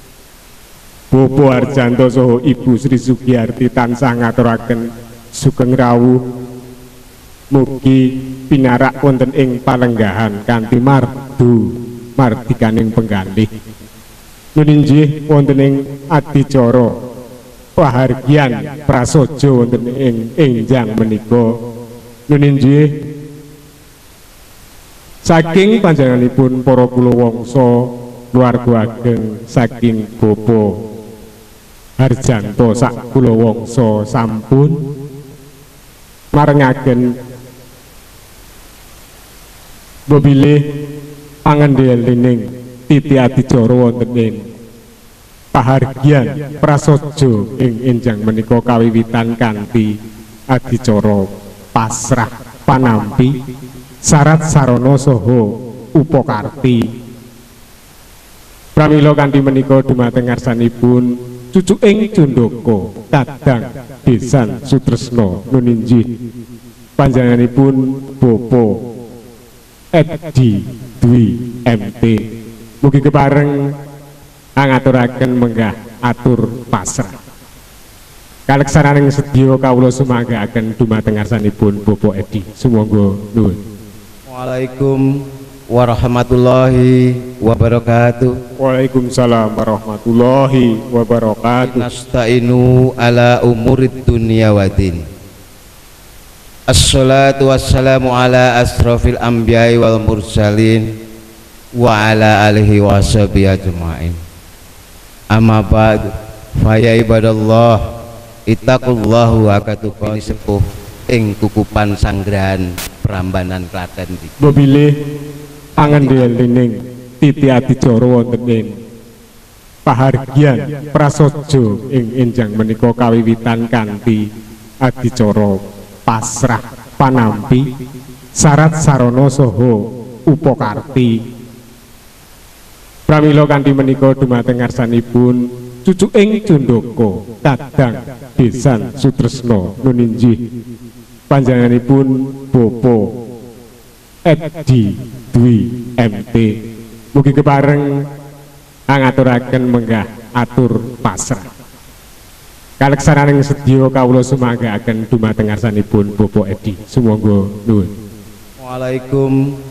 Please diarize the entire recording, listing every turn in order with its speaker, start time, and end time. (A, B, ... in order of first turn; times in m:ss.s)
0:01.1-0:04.8 A
0:05.4-0:06.2 A
0:07.5-0:13.5 A
0:14.5-0:16.9 A
0:17.8-0:21.5 A
0:22.3-0:22.9 A
0:25.2-0:30.7 A
0:32.0-0:34.8 A
0:36.3-0:37.0 A
0:40.1-0:40.6 A
0:41.5-0:44.4 A
0:45.5-0:49.9 A
0:50.5-0:53.3 A
0:54.1-0:56.8 A
0:58.8-1:06.0 A
1:07.0-1:08.8 A
1:10.0-1:12.2 A
1:12.8-1:13.6 A
1:14.6-1:17.1 A
1:18.5-1:23.6 A
1:24.3-1:25.0 B
1:25.7-1:28.3 B
1:28.6-1:31.8 A
1:31.6-1:35.0 B
1:36.7-1:40.9 B
1:41.8-1:44.2 B
1:45.3-1:47.8 B
1:48.5-1:54.3 B
1:54.4-1:54.9 A
1:55.8-1:58.7 A
1:55.8-1:56.3 B
1:59.8-2:04.2 A
2:04.8-2:07.6 A
2:08.4-2:11.2 A
2:13.1-2:20.4 A
2:21.3-2:23.0 A
2:24.3-2:26.5 A
2:27.1-2:28.0 A
2:28.9-2:31.4 A
2:32.8-2:37.9 A
2:38.6-2:39.4 B